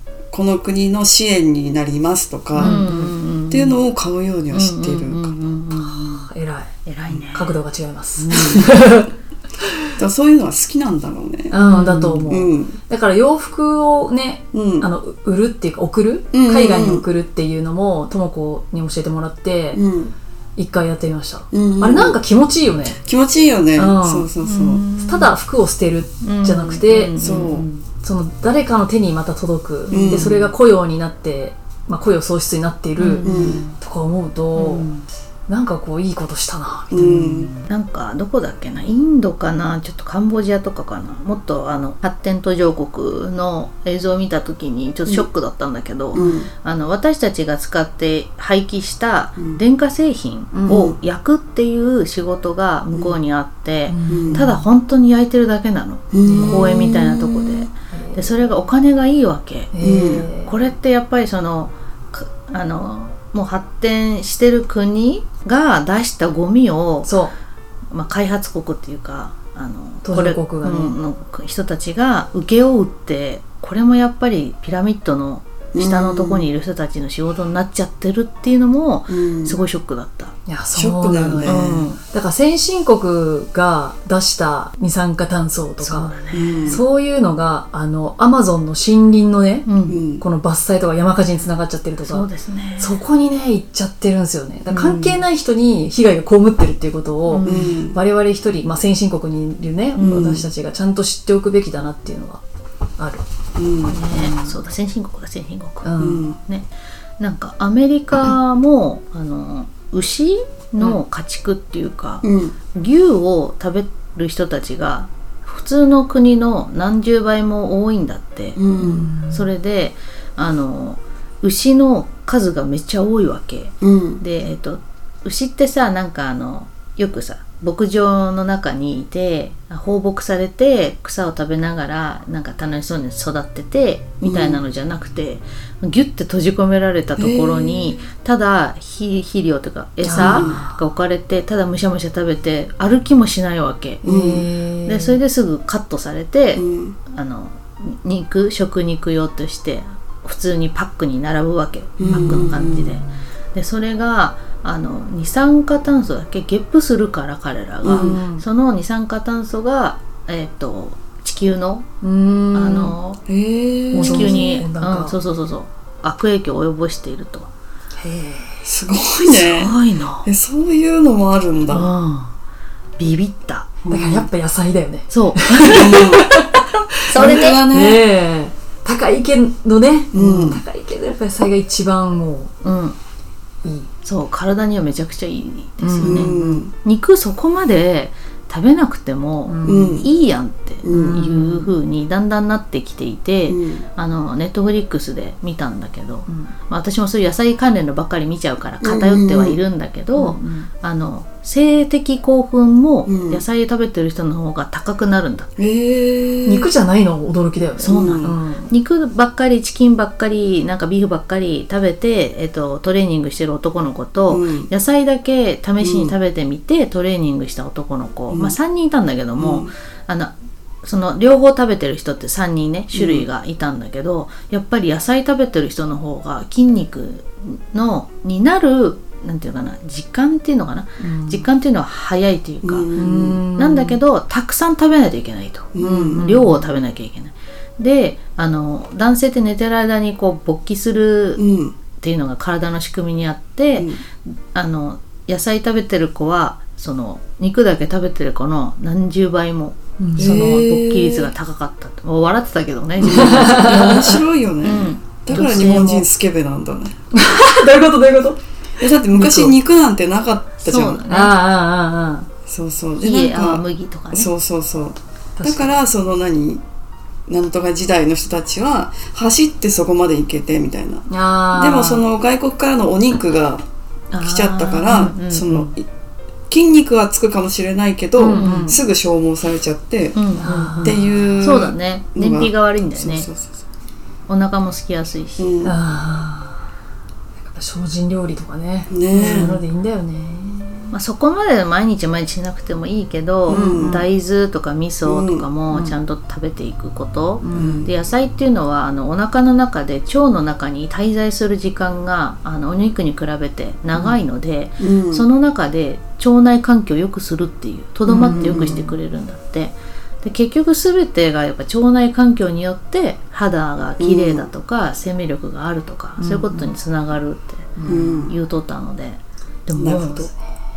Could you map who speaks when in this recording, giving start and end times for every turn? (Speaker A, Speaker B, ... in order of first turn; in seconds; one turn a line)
Speaker A: 0.3-2.8
Speaker B: 2.5-3.2
Speaker C: 2.5-3.8
Speaker A: 3.5-5.3
Speaker C: 4.5-6.3
Speaker B: 5.8-9.1
Speaker C: 6.8-7.5
Speaker C: 8.2-8.7
Speaker A: 10.0-11.5
Speaker B: 11.5-19.8
Speaker C: 11.5-12.2
Speaker A: 12.2-12.8
Speaker A: 14.5-14.9
Speaker A: 16.3-17.0
Speaker A: 19.7-20.1
Speaker B: 20.6-23.0
Speaker A: 21.5-22.2
Speaker A: 23.0-24.8
Speaker B: 23.8-24.3
Speaker C: 24.4-25.4
Speaker B: 25.0-27.2
Speaker C: 26.2-27.8
Speaker A: 27.2-27.6
Speaker B: 28.0-34.9
Speaker C: 29.9-30.5
Speaker A: 29.9-30.5
Speaker C: 33.0-33.8
Speaker A: 33.2-33.6
Speaker C: 34.5-35.0
Speaker B: 35.5-37.6
Speaker A: 36.9-37.5
Speaker C: 37.7-67.1
Speaker A: 46.1-46.5
Speaker B: 50.5-50.9
Speaker A: 50.6-51.0
Speaker B: 53.9-54.6
Speaker A: 54.1-54.4
Speaker A: 56.1-57.7
Speaker B: 56.2-56.8
Speaker B: 57.9-58.6
Speaker B: 59.7-60.5
Speaker A: 59.8-60.3
Speaker B: 67.0-67.3
Speaker C: 67.9-80.3
Speaker B: 70.0-71.0
Speaker A: 75.7-76.5
Speaker A: 79.1-79.6
Speaker B: 80.5-89.7
Speaker A: 80.7-81.9
Speaker C: 81.4-82.0
Speaker C: 85.8-86.8
Speaker A: 86.3-86.8
Speaker C: 89.7-90.0
Speaker A: 89.9-90.2
Speaker B: 90.2-92.2
Speaker C: 92.0-93.0
Speaker B: 92.8-102.4
Speaker C: 94.7-95.1
Speaker C: 97.2-97.8
Speaker A: 97.4-98.0
Speaker A: 100.0-100.5
Speaker B: 103.0-103.2
Speaker A: 103.5-104.0
Speaker C: 103.9-106.7
Speaker B: 103.9-104.6
Speaker B: 105.8-106.3
Speaker A: 106.0-106.4
Speaker C: 107.2-144.0
Speaker A: 112.2-112.5
Speaker A: 118.6-119.1
Speaker B: 118.8-119.5
Speaker A: 123.8-124.2
Speaker A: 134.2-134.6
Speaker A: 137.2-138.0
Speaker B: 140.0-140.8
Speaker A: 140.1-140.6
Speaker B: 144.0-145.2
Speaker A: 144.0-144.4
Speaker C: 144.8-161.9
Speaker A: 146.5-147.0
Speaker A: 152.0-153.0
Speaker B: 152.1-152.3
Speaker A: 157.8-158.2
Speaker B: 157.9-158.4
Speaker B: 162.0-162.9
Speaker C: 162.5-163.2
Speaker A: 163.3-164.6
Speaker C: 163.9-167.5
Speaker B: 163.9-165.2
Speaker B: 168.0-168.7
Speaker A: 168.6-171.9
Speaker C: 169.3-170.3
Speaker C: 171.7-172.3
Speaker C: 173.0-173.8
Speaker A: 173.8-174.3
Speaker B: 173.9-182.5
Speaker C: 175.1-176.0
Speaker A: 175.7-176.5
Speaker A: 177.1-178.1
Speaker C: 177.1-177.6
Speaker A: 180.1-180.6
Speaker C: 182.6-182.9
Speaker B: 183.6-183.9
Speaker C: 184.0-205.5
Speaker B: 185.8-186.6
Speaker A: 186.0-186.7
Speaker B: 189.5-190.0
Speaker A: 189.6-190.1
Speaker A: 190.8-191.2
Speaker B: 190.9-191.7
Speaker A: 193.5-193.8
Speaker B: 196.3-196.5
Speaker A: 198.8-199.6
Speaker B: 200.2-200.7
Speaker A: 203.1-203.4
Speaker A: 205.6-206.7
Speaker B: 206.4-208.7
Speaker C: 207.8-220.3
Speaker A: 207.8-208.3
Speaker A: 214.3-214.7
Speaker A: 215.8-216.1
Speaker A: 218.3-218.5
Speaker A: 219.4-219.7
Speaker C: 220.8-232.9
Speaker A: 222.9-223.2
Speaker B: 231.0-231.5
Speaker A: 232.6-233.4
Speaker B: 232.9-234.0
Speaker C: 233.6-241.4
Speaker A: 235.7-236.3
Speaker B: 235.8-236.6
Speaker A: 241.4-241.7
Speaker C: 242.0-243.9
Speaker A: 243.8-244.0
Speaker C: 244.5-254.1
Speaker B: 250.0-250.7
Speaker A: 250.2-251.3
Speaker A: 253.0-256.9
Speaker B: 253.1-254.2
Speaker C: 254.6-256.1
Speaker B: 257.1-258.4
Speaker A: 258.8-261.0
Speaker B: 259.1-259.6
Speaker C: 260.6-261.4
Speaker B: 261.1-262.3
Speaker A: 262.5-266.6
Speaker C: 263.0-264.3
Speaker B: 265.4-265.8
Speaker A: 267.3-273.6
Speaker B: 271.1-272.0
Speaker C: 274.1-275.7
Speaker A: 274.2-275.8
Speaker A: 276.5-280.2
Speaker B: 278.1-278.8
Speaker C: 278.3-278.7
Speaker C: 280.1-283.3
Speaker B: 280.4-281.3
Speaker A: 280.8-283.6
Speaker C: 284.3-285.5
Speaker A: 285.4-285.7
Speaker B: 285.6-286.6
Speaker B: 287.4-290.9
Speaker A: 288.9-289.6
Speaker C: 289.1-289.6
Speaker C: 290.9-320.3
Speaker A: 293.5-294.1
Speaker B: 293.5-294.0
Speaker A: 295.1-295.4
Speaker B: 295.7-296.0
Speaker B: 297.4-297.9
Speaker A: 297.5-297.9
Speaker A: 304.8-305.2
Speaker A: 308.1-308.9
Speaker B: 308.1-308.5
Speaker A: 314.0-314.5
Speaker B: 316.2-316.7
Speaker B: 317.8-318.1
Speaker A: 317.9-318.3
Speaker A: 319.8-320.3